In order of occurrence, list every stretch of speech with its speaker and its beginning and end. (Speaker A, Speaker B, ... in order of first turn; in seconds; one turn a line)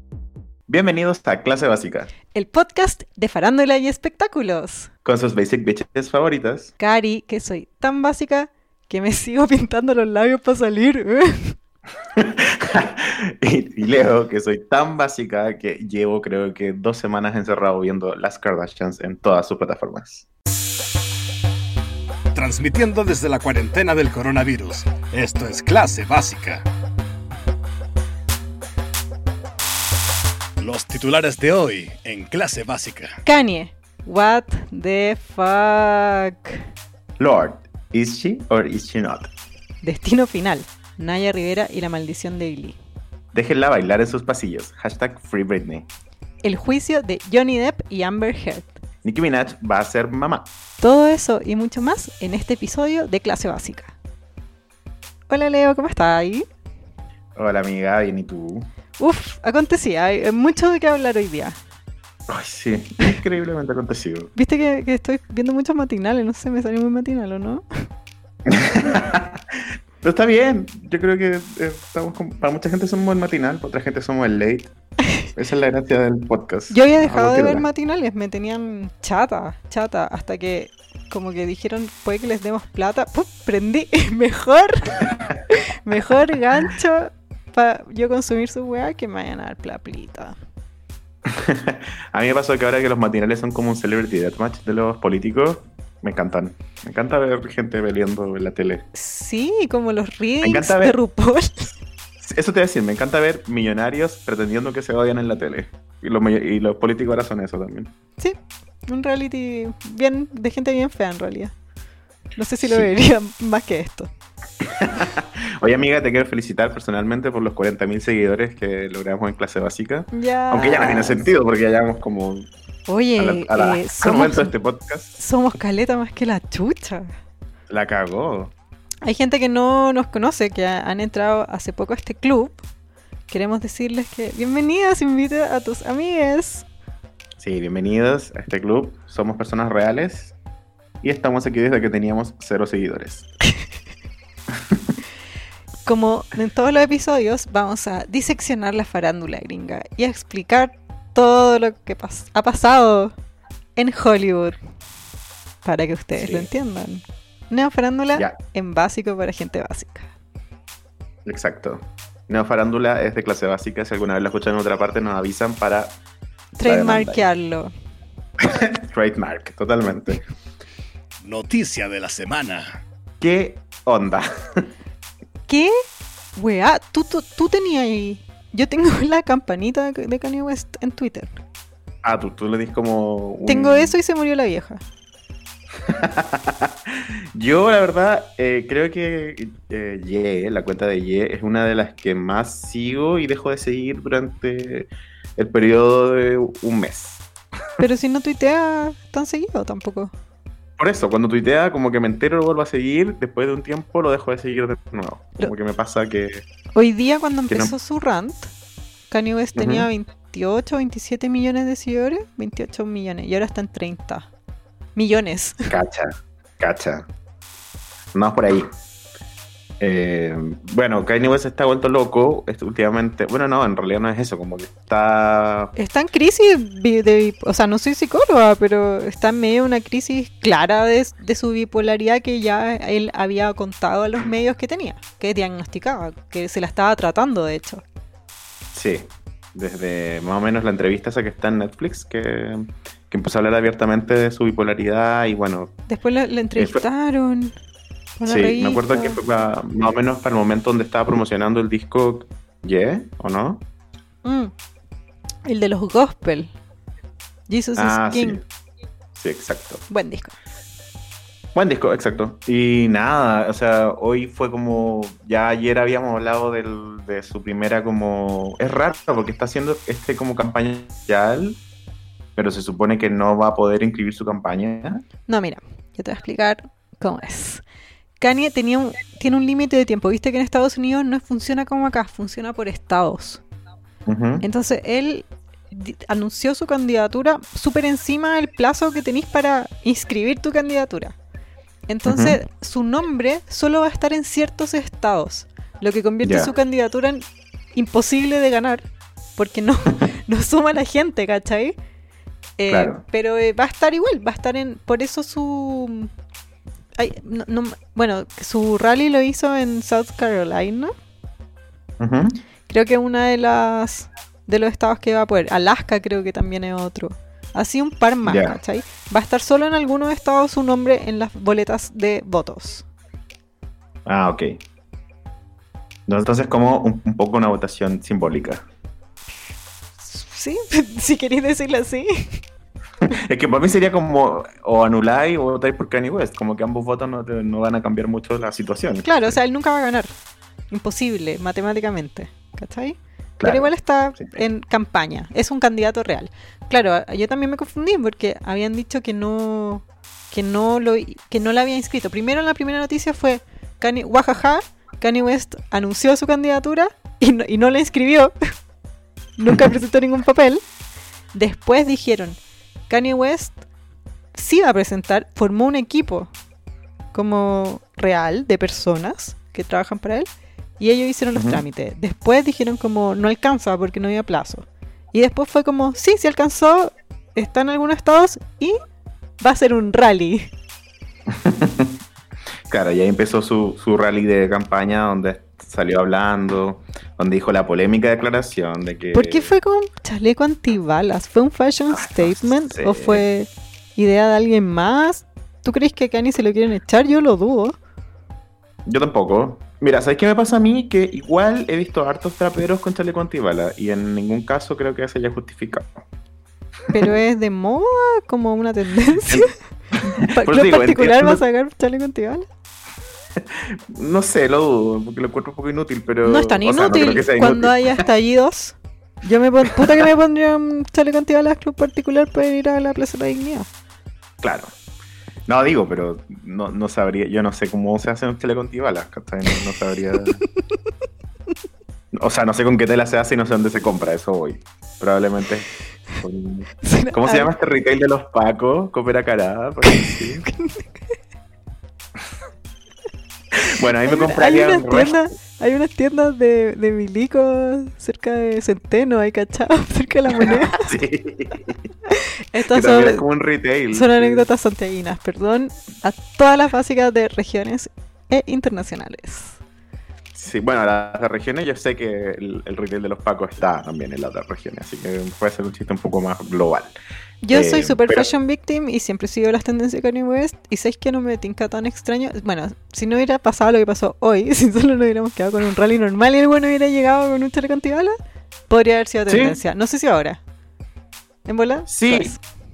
Speaker A: 0.7-2.1
Speaker B: 2.3-4.9
Speaker A: 5.0-6.7
Speaker B: 6.8-11.6
Speaker A: 12.1-20.2
Speaker C: 22.3-26.6
Speaker C: 30.6-33.2
Speaker B: 33.2-36.6
Speaker A: 37.2-39.3
Speaker B: 39.8-42.8
Speaker A: 43.3-45.9
Speaker B: 46.4-48.8
Speaker A: 49.0-50.5
Speaker B: 50.8-53.9
Speaker B: 55.3-56.5
Speaker A: 57.3-58.7
Speaker B: 59.0-61.6
Speaker A: 62.3-64.3
Speaker B: 64.3-67.9
Speaker A: 68.5-74.7
Speaker A: 75.3-77.7
Speaker B: 76.7-90.3
Speaker A: 91.2-98.8
Speaker B: 98.9-101.7
Speaker A: 100.4-101.0
Speaker A: 102.2-107.9
Speaker B: 108.9-111.5
Speaker B: 112.3-114.1
Speaker A: 112.6-112.9
Speaker A: 114.6-122.5
Speaker B: 120.1-121.3
Speaker B: 122.9-124.5
Speaker A: 123.2-125.2
Speaker B: 125.2-127.1
Speaker A: 127.7-128.5
Speaker B: 129.0-132.6
Speaker B: 133.3-136.6
Speaker A: 137.4-140.3
Speaker A: 141.0-143.3
Speaker A: 144.5-144.9
Speaker B: 145.8-153.1
Speaker B: 153.8-154.6
Speaker B: 155.6-160.1
Speaker A: 156.2-156.5
Speaker A: 161.2-165.9
Speaker B: 166.6-167.7
Speaker A: 166.6-167.2
Speaker A: 168.5-170.2
Speaker C: 171.2-172.8
Speaker A: 173.2-174.7
Speaker B: 175.5-175.7
Speaker B: 176.3-181.4
Speaker A: 182.0-183.9
Speaker B: 183.4-184.8
Speaker A: 185.8-197.2
Speaker B: 197.8-200.1
Speaker A: 200.8-206.4
Speaker B: 206.7-208.5
Speaker B: 209.1-214.3
Speaker A: 209.6-209.9
Speaker B: 214.9-215.7
Speaker A: 215.7-217.1
Speaker A: 218.1-218.7
Speaker A: 219.8-225.7
Speaker B: 225.8-237.8
Speaker A: 238.7-245.7
Speaker B: 245.9-247.5
Speaker A: 246.6-246.8
Speaker B: 248.2-249.2
Speaker A: 248.2-253.6
Speaker B: 254.2-254.5
Speaker B: 255.4-256.5
Speaker B: 257.5-258.4
Speaker A: 257.8-258.4
Speaker A: 259.1-259.8
Speaker B: 259.9-260.3
Speaker A: 261.5-271.6
Speaker A: 272.4-275.0
Speaker B: 275.3-277.6
Speaker B: 278.2-283.4
Speaker A: 284.1-284.4
Speaker B: 284.4-291.1
Speaker B: 291.9-298.9
Speaker A: 292.0-292.4
Speaker A: 296.2-296.5
Speaker B: 299.4-301.8
Speaker B: 302.6-306.1
Speaker A: 302.7-303.0
Speaker B: 307.0-310.9
Speaker A: 312.0-312.3
Speaker B: 312.7-322.8
Speaker A: 318.2-318.6
Speaker A: 324.1-324.6
Speaker A: 326.1-328.6
Speaker B: 330.0-332.4
Speaker A: 333.1-339.4
Speaker B: 339.0-340.1
Speaker B: 340.7-358.3
Speaker A: 343.4-344.4
Speaker B: 359.4-360.6
Speaker B: 361.3-363.6
Speaker B: 364.3-366.3
Speaker B: 367.1-378.8
Speaker A: 371.3-371.6
Speaker B: 379.4-380.5
Speaker A: 381.3-382.0
Speaker A: 382.7-389.5
Speaker B: 389.1-397.8
Speaker A: 391.9-393.2
Speaker A: 398.9-406.0
Speaker B: 406.9-409.5
Speaker A: 409.2-411.4
Speaker B: 410.2-412.5
Speaker A: 413.4-418.0
Speaker B: 416.2-423.7
Speaker A: 419.7-420.0
Speaker A: 424.4-424.7
Speaker A: 425.5-430.4
Speaker A: 432.1-440.4
Speaker B: 436.8-437.5
Speaker B: 439.8-441.1
Speaker A: 443.6-445.2
Speaker B: 444.0-450.9
Speaker A: 450.3-451.8
Speaker B: 452.1-453.2
Speaker A: 452.7-454.4
Speaker B: 453.9-459.6
Speaker A: 460.3-466.9
Speaker B: 467.4-478.2
Speaker A: 467.5-468.3
Speaker B: 478.7-480.4
Speaker A: 479.3-479.6
Speaker B: 481.4-482.4
Speaker A: 481.9-482.3